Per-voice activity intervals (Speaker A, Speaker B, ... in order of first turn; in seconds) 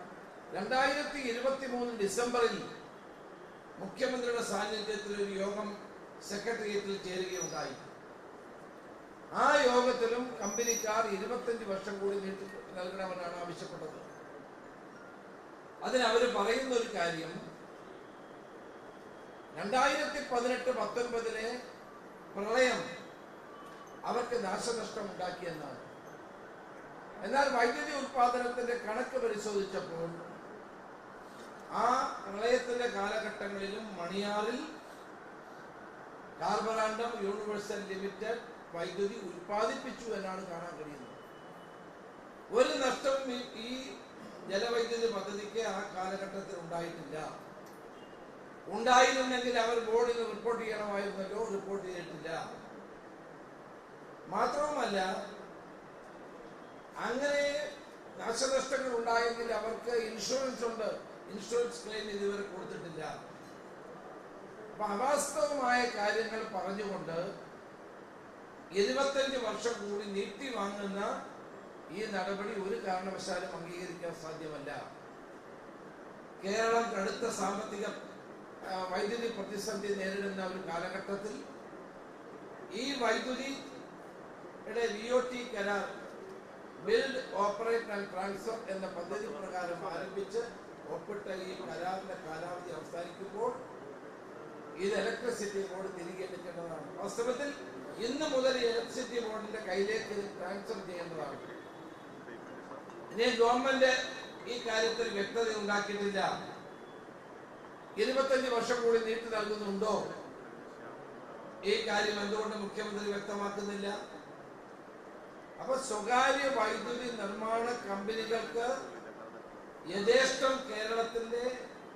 Speaker A: 0.5-2.6, 3.8-5.7, 6.2-7.8, 9.3-14.1, 15.8-17.4, 19.6-21.5, 22.3-22.8, 24.1-25.9, 27.2-30.2, 31.7-34.6, 36.4-41.2, 42.5-43.9, 44.5-47.3, 48.7-52.4, 54.3-55.1, 57.0-57.6, 58.2-63.1, 64.7-67.3, 68.8-71.1, 71.9-74.8, 76.4-77.9, 78.7-81.4, 82.7-83.5, 84.7-85.9, 86.8-93.6, 94.8-101.5, 103.1-106.3, 108.0-110.1, 111.6-114.0, 115.6-118.8, 119.9-121.5